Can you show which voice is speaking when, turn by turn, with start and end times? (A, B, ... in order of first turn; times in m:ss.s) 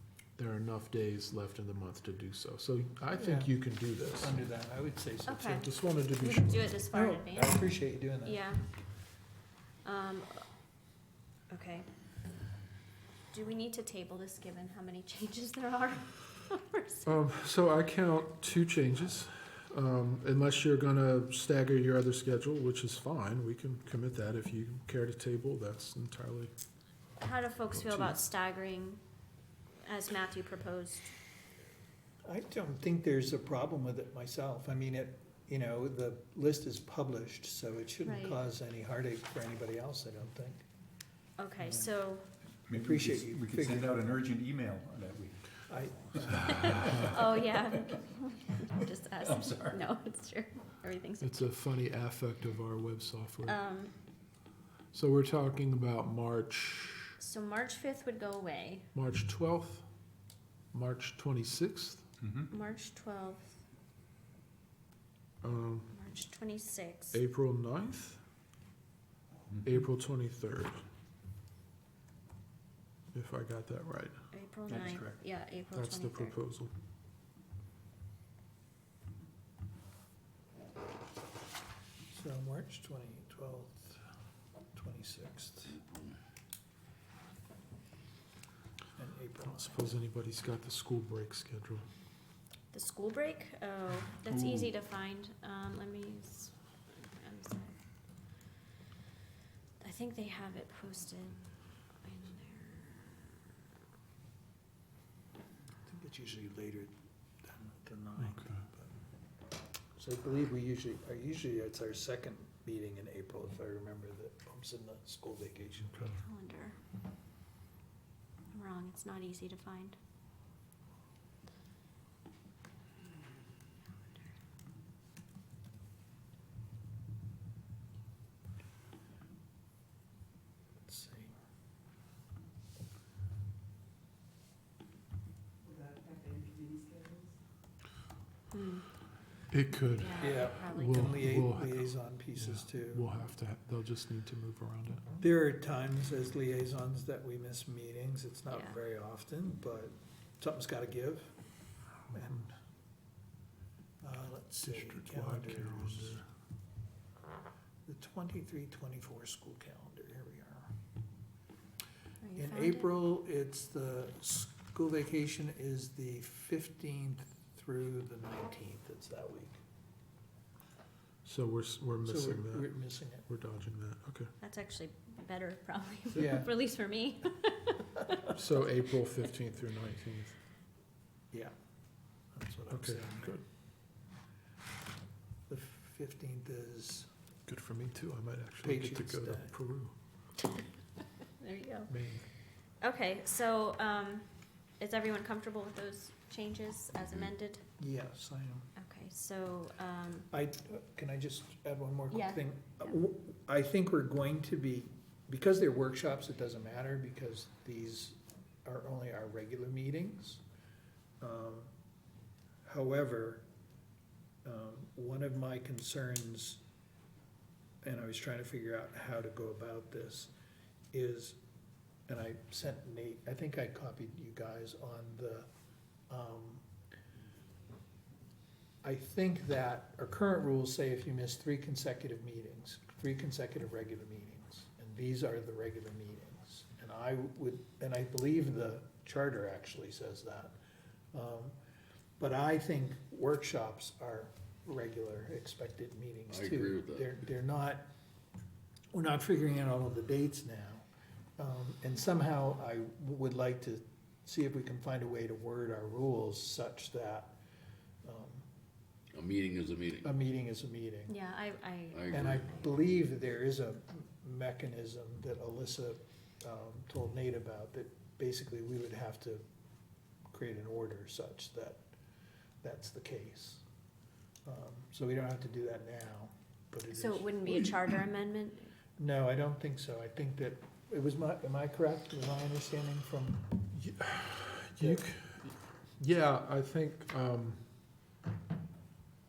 0:00.4-0:04.4 A
0:03.1-0:03.6 B
0:04.2-0:05.6 B
0:05.2-0:07.6 C
0:05.4-0:06.7 A
0:06.9-0:08.4 B
0:08.2-0:08.6 C
0:09.8-0:10.4 C
0:11.5-0:11.9 C
0:13.3-0:17.1 C
0:17.0-0:26.5 A
0:27.2-0:29.0 C
0:27.7-0:28.2 A
0:29.8-0:31.1 C
0:32.2-0:40.6 B
0:38.0-0:38.4 C
0:41.4-0:42.3 C
0:42.7-0:45.6 D
0:42.8-0:44.0 B
0:45.7-0:46.9 B
0:46.5-0:51.4 C
0:46.7-0:47.2 A
0:49.2-0:49.8 D
0:51.2-0:53.6 A
0:53.4-0:53.9 C
0:54.9-0:57.2 A
0:57.2-0:58.8 C
0:58.9-0:59.8 A
1:00.7-1:02.0 A
1:02.2-1:02.5 D
1:02.5-1:03.6 C
1:05.4-1:05.9 A
1:05.9-1:07.2 C
1:07.1-1:08.2 A
1:09.6-1:10.8 A
1:13.1-1:14.1 A
1:14.3-1:16.4 C
1:14.7-1:15.2 D
1:15.7-1:16.7 A
1:22.1-1:24.0 B
1:24.7-1:25.8 B
1:29.0-1:30.0 B
1:29.4-1:31.8 A
1:32.7-1:37.7 C
1:34.3-1:34.6 A
1:39.8-1:43.4 C
1:45.8-1:46.9 B
1:47.4-1:48.9 B
1:48.2-1:48.6 A
1:50.0-1:56.2 B
1:56.1-1:56.8 C
1:58.5-2:00.0 C
2:10.9-2:11.4 B
2:18.5-2:18.9 C
2:19.5-2:25.1 A
2:20.0-2:21.2 C
2:20.2-2:23.1 B
2:25.2-2:31.3 B
2:28.5-2:28.8 C
2:32.1-2:32.5 B
2:34.0-2:36.2 B
2:34.7-2:36.2 A
2:37.8-2:40.7 B
2:42.2-2:42.9 C
2:42.4-2:49.6 B
2:51.2-2:52.7 A
2:52.0-2:53.3 B
2:53.2-2:54.3 A
2:54.4-2:58.3 C
2:56.1-2:56.5 B
2:58.3-3:00.4 A
3:02.3-3:03.4 B
3:02.7-3:03.4 A
3:05.5-3:07.1 B
3:07.5-3:09.9 A
3:08.6-3:09.5 B
3:11.4-3:11.9 C
3:11.9-3:12.2 A
3:12.8-3:17.6 C
3:17.8-3:18.7 B
3:18.8-3:20.3 C
3:20.3-3:30.4 B
3:22.1-3:22.4 C
3:31.2-3:31.7 B
3:32.6-3:33.4 B
3:34.4-3:36.6 B
3:37.8-3:40.3 B
3:40.9-3:41.4 B
3:42.1-3:45.5 B
3:46.1-3:46.6 B
3:48.8-4:00.5 B
4:01.1-4:01.6 B
4:02.2-4:07.8 B
4:06.3-4:07.0 E
4:08.9-4:10.8 B
4:11.4-4:17.4 B
4:18.0-4:18.4 B
4:19.1-4:20.1 E
4:20.0-4:21.1 B
4:21.1-4:22.8 C
4:21.9-4:22.4 E
4:22.1-4:29.4 B
4:30.3-4:31.8 B
4:32.6-4:33.6 B
4:34.4-4:38.0 B
4:36.9-4:38.7 C
4:39.0-4:45.1 B
4:44.8-4:47.6 A